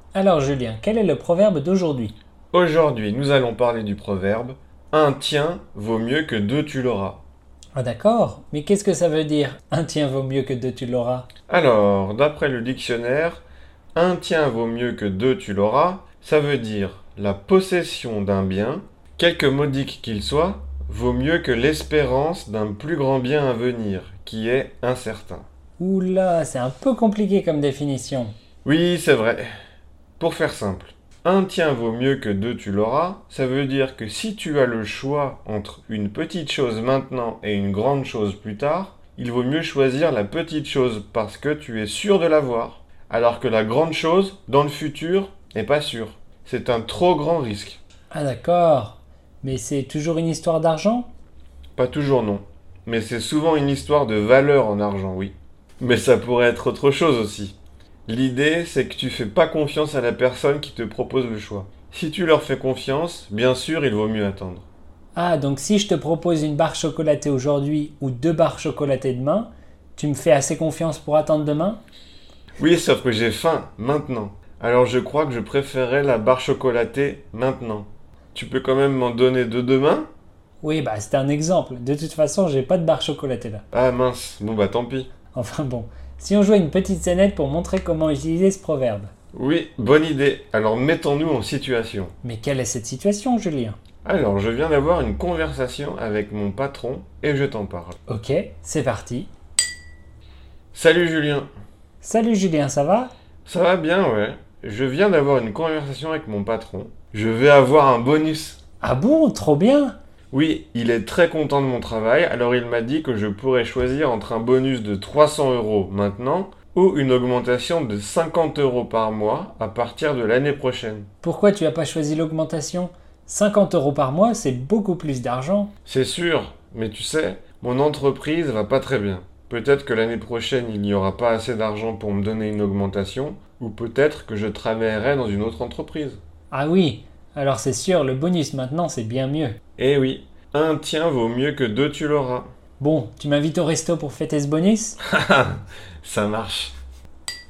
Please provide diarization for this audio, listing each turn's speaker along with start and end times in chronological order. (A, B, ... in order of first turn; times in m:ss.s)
0:00.1-0:02.1 A
0:02.5-0:07.2 B
0:07.8-0:11.3 A
0:11.5-0:13.4 B
0:13.9-0:25.4 B
0:25.8-0:28.3 A
0:28.6-0:29.5 B
0:30.2-0:47.8 B
0:48.1-0:51.1 A
0:51.8-0:57.5 B
0:58.1-1:04.7 B
1:05.1-1:11.8 A
1:12.6-1:20.1 B
1:20.6-1:23.6 A
1:23.7-1:25.1 B
1:25.3-1:29.1 A
1:29.3-1:32.1 B
1:32.2-1:33.8 A
1:34.0-1:38.0 B
1:38.1-1:39.3 A
1:40.7-1:41.5 B
1:42.0-1:43.1 A
1:43.4-1:48.6 B
1:48.8-1:50.0 A
1:50.3-2:01.1 B
2:01.2-2:05.7 A
2:05.8-2:16.2 B
2:16.5-2:19.6 A
2:19.8-2:22.5 B
2:22.8-2:25.0 A
2:25.0-2:26.7 B